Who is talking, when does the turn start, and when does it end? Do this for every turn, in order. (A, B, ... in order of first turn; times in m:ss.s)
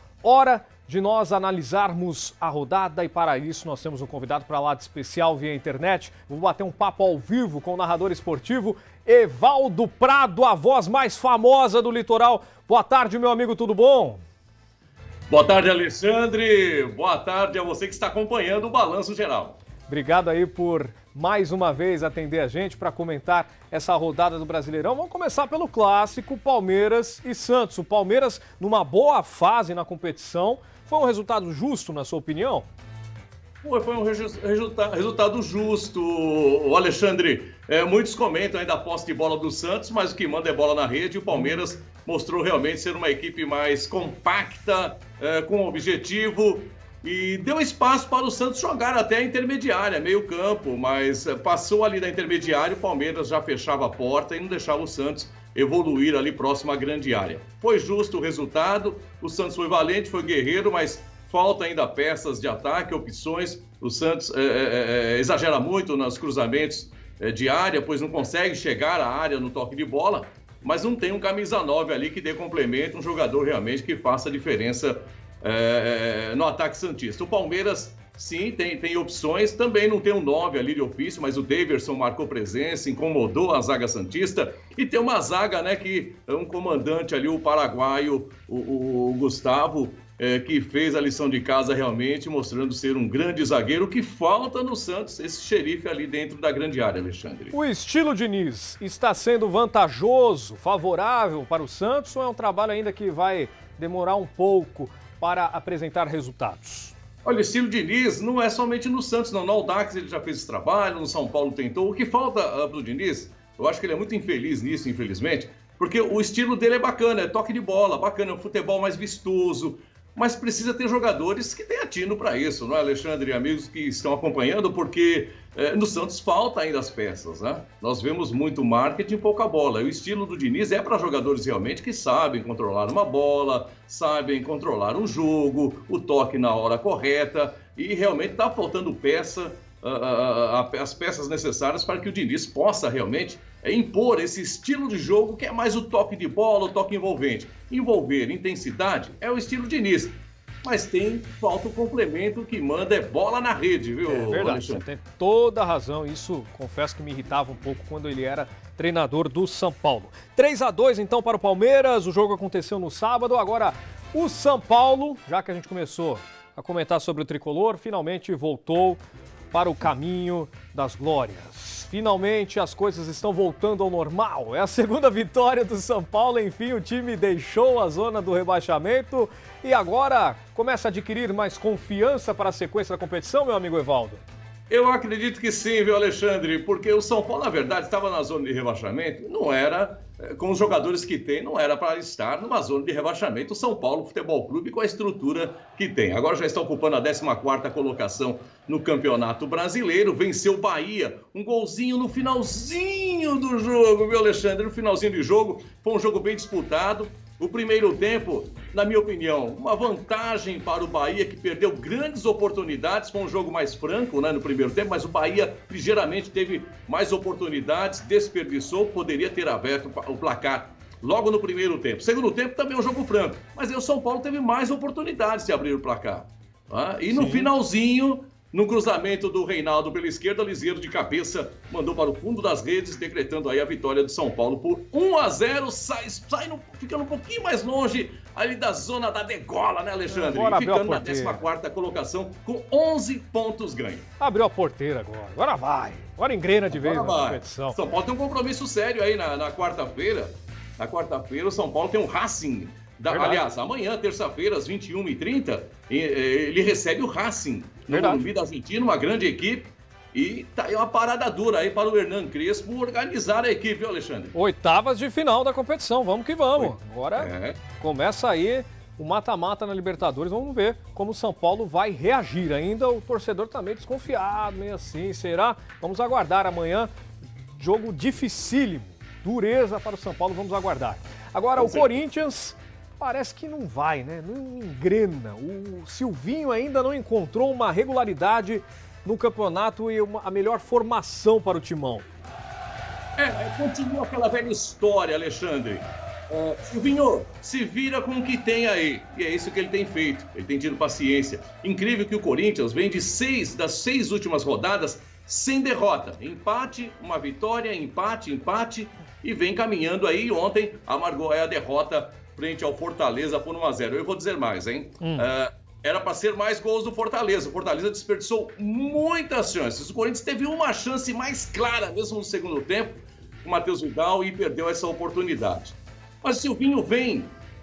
0:00.2-0:14.2 A
0:15.3-0:19.6 B
0:19.9-0:32.7 A
0:33.6-1:37.5 B
1:37.5-1:46.9 A
1:47.2-2:34.8 B
2:34.0-2:49.0 A
2:49.5-3:04.2 A
3:04.7-4:04.0 B
3:47.1-3:47.5 A
4:00.1-4:01.4 A
4:04.2-4:07.8 A
4:06.7-4:24.3 B
4:13.1-4:13.4 A
4:17.9-4:18.2 A
4:24.3-4:36.9 A
4:26.6-4:27.6 B
4:37.5-4:52.0 A
4:41.6-4:41.9 B
4:53.2-5:27.3 B
5:15.0-5:15.2 A